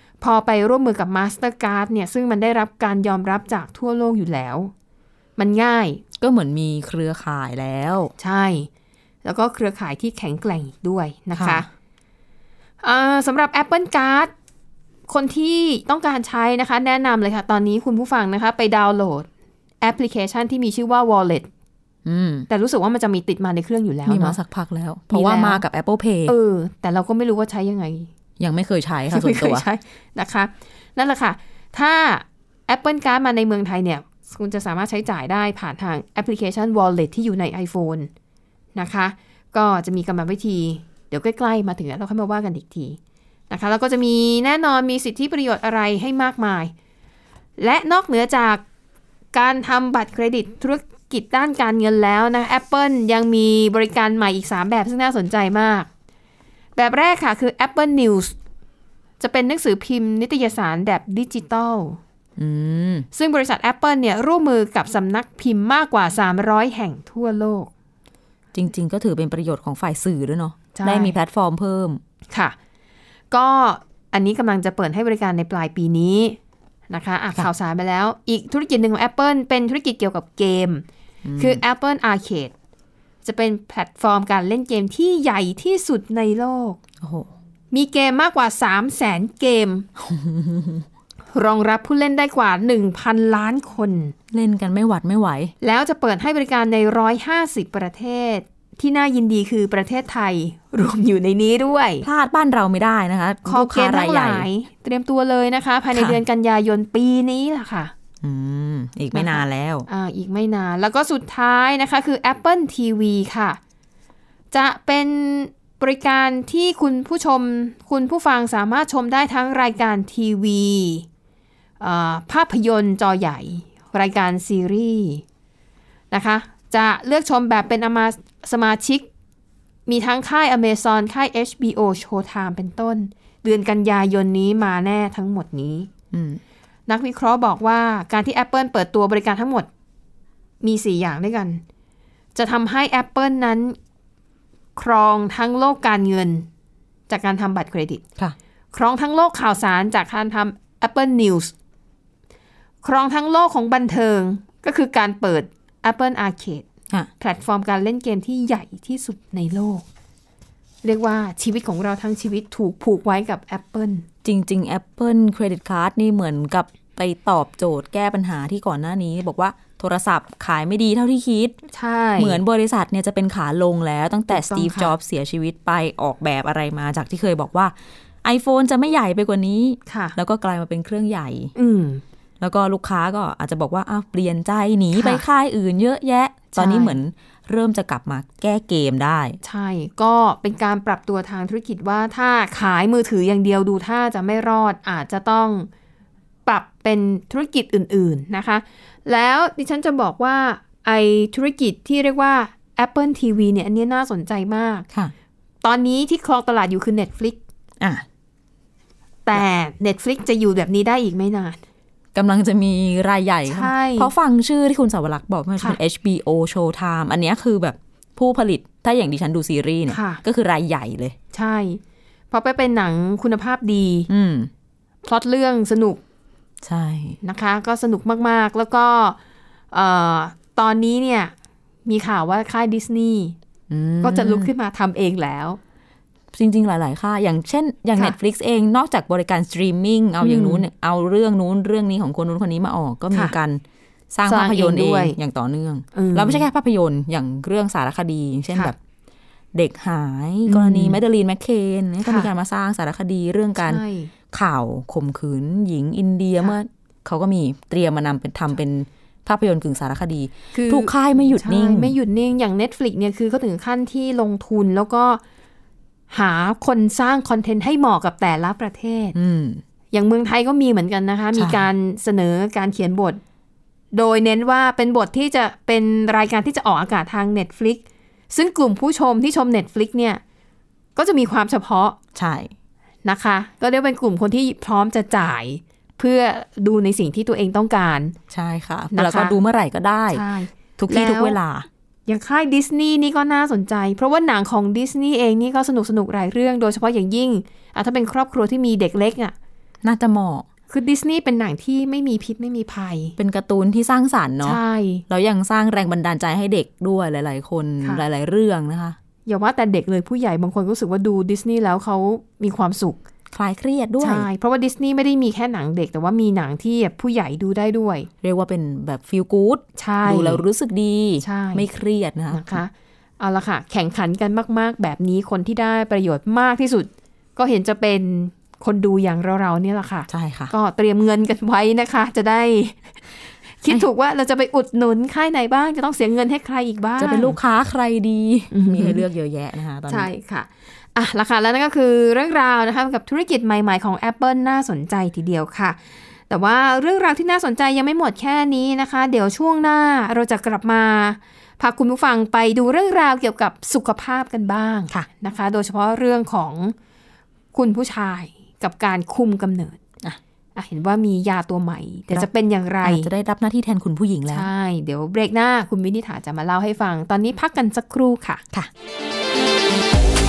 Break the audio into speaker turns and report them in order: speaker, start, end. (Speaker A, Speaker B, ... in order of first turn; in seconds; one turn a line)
Speaker A: 0.2-4.7
Speaker A: 5.4-6.0
Speaker B: 6.2-8.1
Speaker A: 8.2-8.7
Speaker A: 9.2-11.7
Speaker B: 11.3-11.6
Speaker A: 12.8-14.3
Speaker A: 15.1-19.3
Speaker A: 19.8-21.5
Speaker B: 22.0-22.5
Speaker A: 22.5-24.4
Speaker B: 24.1-26.3
Speaker A: 25.1-25.6
Speaker A: 26.2-28.1
Speaker B: 28.4-29.6
Speaker A: 29.1-38.1
Speaker A: 38.7-43.0
Speaker A: 43.5-46.7
Speaker A: 47.6-48.6
Speaker A: 49.3-55.9
Speaker A: 56.8-58.3
Speaker A: 59.2-62.0
Speaker B: 62.4-63.1
Speaker A: 63.1-67.7
Speaker B: 68.5-72.0
Speaker A: 70.7-71.2
Speaker A: 73.3-76.4
Speaker A: 76.9-80.8
Speaker B: 81.2-81.6
Speaker A: 81.4-82.5
Speaker A: 83.2-86.8
Speaker B: 87.0-87.3
Speaker A: 87.7-89.9
Speaker B: 90.0-90.8
Speaker A: 91.3-94.1
Speaker B: 94.3-95.5
Speaker A: 95.6-102.0
Speaker B: 102.0-104.5
Speaker A: 103.4-107.9
Speaker B: 105.9-106.2
Speaker B: 108.2-109.9
Speaker A: 109.1-113.6
Speaker A: 114.5-121.0
Speaker A: 121.8-125.2
Speaker A: 126.1-129.1
Speaker A: 129.9-135.9
Speaker B: 136.1-136.4
Speaker A: 136.9-139.7
Speaker A: 140.6-141.6
Speaker A: 142.3-143.8
Speaker A: 144.8-146.5
Speaker A: 147.1-148.0
Speaker A: 148.7-151.5
Speaker A: 152.8-156.7
Speaker A: 157.2-159.8
Speaker A: 160.8-164.0
Speaker B: 164.2-171.6
Speaker A: 171.7-172.4
Speaker B: 172.2-181.5
Speaker A: 174.3-174.9
Speaker A: 179.9-180.2
Speaker A: 181.5-182.0
Speaker B: 182.4-189.4
Speaker A: 184.9-185.2
Speaker A: 186.5-187.0
Speaker A: 189.4-195.7
Speaker A: 196.4-204.9
Speaker A: 205.6-207.4
Speaker B: 207.8-208.0
Speaker A: 209.2-211.6
Speaker B: 212.1-221.2
Speaker A: 213.5-214.1
Speaker A: 219.9-220.2
Speaker A: 221.3-224.1
Speaker B: 224.1-224.5
Speaker A: 225.0-226.0
Speaker B: 226.6-227.2
Speaker A: 227.2-229.2
Speaker A: 229.7-231.3
Speaker A: 231.8-233.3
Speaker B: 233.7-234.5
Speaker A: 234.0-235.6
Speaker B: 236.3-248.8
Speaker A: 240.2-240.6
Speaker A: 244.2-245.2
Speaker A: 245.9-246.4
Speaker B: 249.5-261.9
Speaker A: 250.5-251.0
Speaker A: 252.0-252.3
Speaker A: 253.6-254.1
Speaker A: 260.5-265.2
Speaker A: 266.1-269.1
Speaker B: 269.1-269.6
Speaker A: 269.9-273.2
Speaker B: 271.3-271.6
Speaker A: 273.9-280.2
Speaker A: 280.9-282.0
Speaker B: 282.1-282.5
Speaker A: 283.0-288.1
Speaker B: 288.3-290.2
Speaker A: 288.9-289.4
Speaker A: 290.1-291.4
Speaker B: 290.8-291.7
Speaker A: 292.1-299.3
Speaker B: 299.8-300.4
Speaker A: 300.7-303.1
Speaker B: 303.2-309.0
Speaker A: 304.4-305.0
Speaker A: 309.2-313.0
Speaker B: 313.3-314.3
Speaker A: 314.0-318.1
Speaker B: 318.2-322.6
Speaker A: 319.8-320.4
Speaker A: 321.2-321.7
Speaker A: 322.3-332.9
Speaker B: 330.1-330.5
Speaker A: 333.6-337.4
Speaker B: 337.0-340.1
Speaker A: 338.5-339.0
Speaker A: 339.9-356.7
Speaker A: 357.5-359.8
Speaker A: 360.6-363.1
Speaker B: 362.8-364.5
Speaker A: 364.3-368.4